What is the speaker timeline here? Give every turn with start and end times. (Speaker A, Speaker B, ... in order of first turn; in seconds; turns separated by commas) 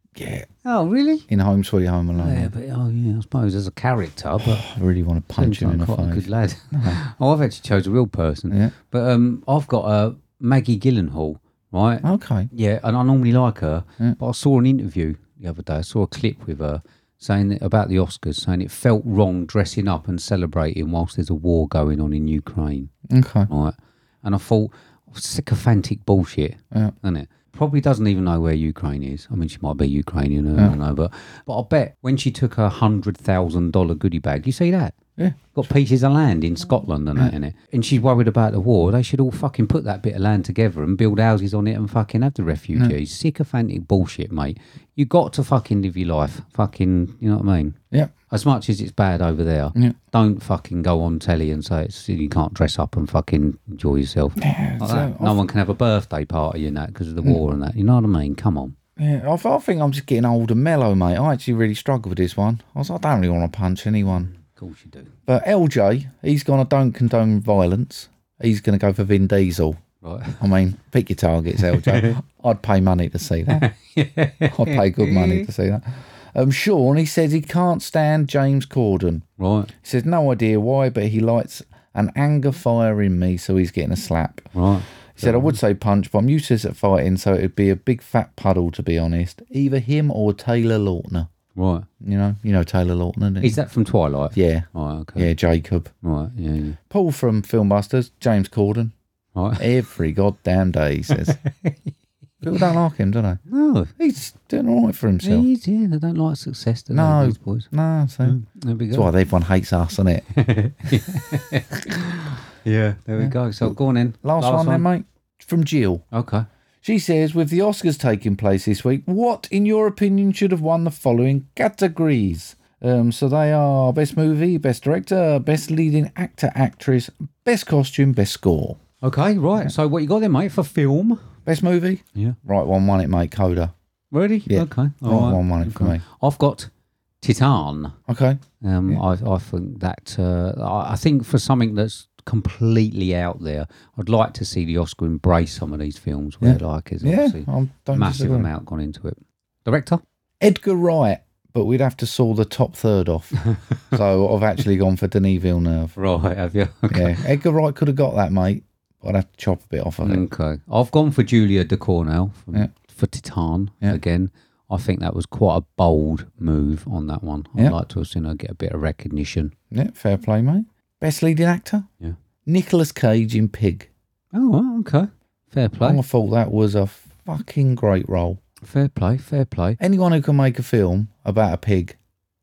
Speaker A: 0.2-0.5, Speaker B: 0.6-1.3, Speaker A: 1.3-2.5, Speaker B: 2.1-4.6, Speaker A: 4.4-7.0, Speaker B: 5.4-22.9, Speaker A: 12.0-12.5, Speaker A: 23.1-23.5, Speaker B: 23.5-35.0, Speaker B: 35.5-47.8, Speaker B: 48.3-58.8, Speaker A: 54.4-55.4, Speaker A: 59.0-64.3, Speaker B: 64.2-65.1, Speaker A: 65.3-69.8, Speaker B: 70.0-70.4, Speaker A: 70.4-73.7, Speaker B: 71.6-72.2, Speaker B: 73.5-75.5, Speaker A: 74.5-79.2, Speaker B: 79.4-79.7, Speaker A: 79.8-84.5, Speaker B: 84.5-85.6, Speaker A: 85.1-91.3, Speaker B: 91.5-91.9, Speaker A: 92.0-93.6, Speaker B: 93.4-95.3, Speaker A: 94.3-95.9, Speaker B: 96.0-96.8, Speaker A: 96.9-98.9, Speaker B: 99.3-99.7, Speaker A: 99.6-101.4, Speaker B: 101.1-101.9, Speaker A: 102.4-103.4, Speaker B: 103.5-103.9, Speaker A: 104.0-105.5, Speaker B: 105.2-107.7, Speaker A: 106.9-108.4, Speaker B: 108.2-109.1, Speaker A: 108.9-110.2, Speaker B: 110.3-114.9, Speaker A: 113.2-116.0, Speaker B: 116.1-116.5, Speaker A: 116.8-128.8, Speaker B: 129.0-131.2, Speaker A: 131.5-133.7, Speaker B: 134.1-136.7, Speaker A: 134.5-136.0, Speaker B: 137.2-138.0, Speaker A: 138.1-139.0, Speaker B: 138.6-150.0, Speaker A: 146.4-148.5, Speaker A: 150.4-156.0, Speaker B: 156.0-157.2, Speaker A: 156.9-160.2, Speaker B: 160.0-169.5, Speaker A: 169.7-171.9, Speaker A: 172.5-173.9, Speaker B: 174.3-176.0, Speaker A: 175.8-178.4, Speaker B: 178.6-179.8, Speaker A: 179.8-182.0